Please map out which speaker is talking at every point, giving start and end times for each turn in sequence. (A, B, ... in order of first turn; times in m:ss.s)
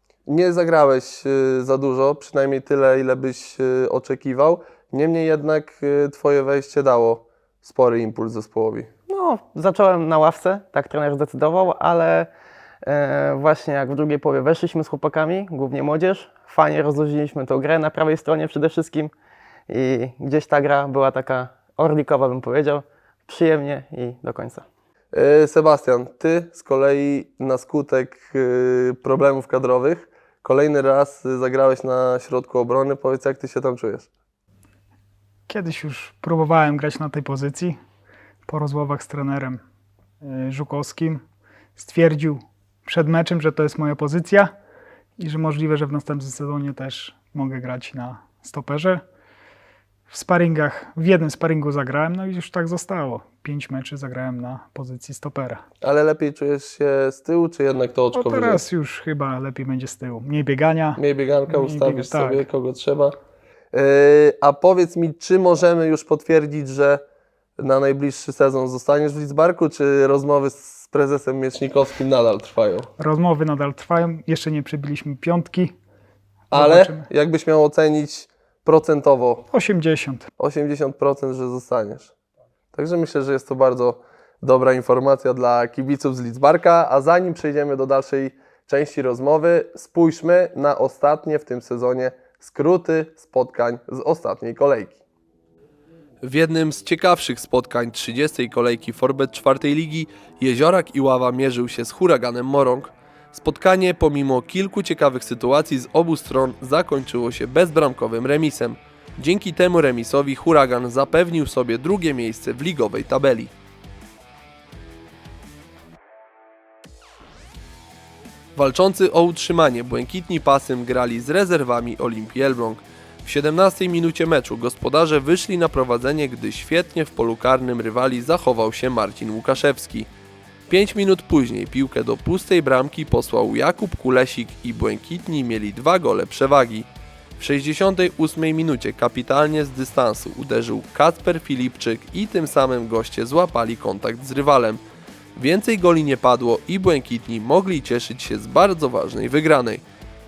0:00.3-0:08.9 A
0:09.1-0:12.3 B
0:12.8-0:19.1 B
0:19.7-0:24.7 B
0:25.1-0:34.1 A
0:35.5-0:37.8 C
0:38.5-0:39.6 C
0:40.2-0:41.2 C
0:41.8-0:44.6 C
0:45.2-0:49.0 C
0:50.1-0:55.6 C
0:55.8-0:58.6 A
0:58.1-1:02.4 C
1:01.0-1:03.2 A
1:03.7-1:07.0 A
1:07.6-1:12.9 A
1:13.0-1:15.8 C
1:16.5-1:17.1 C
1:16.5-1:19.4 A
1:19.5-1:20.3 C
1:20.4-1:22.1 A
1:22.7-1:35.0 A
1:36.2-1:53.5 A
1:58.6-2:10.1 A
2:10.7-2:24.8 A
2:25.4-2:29.8 A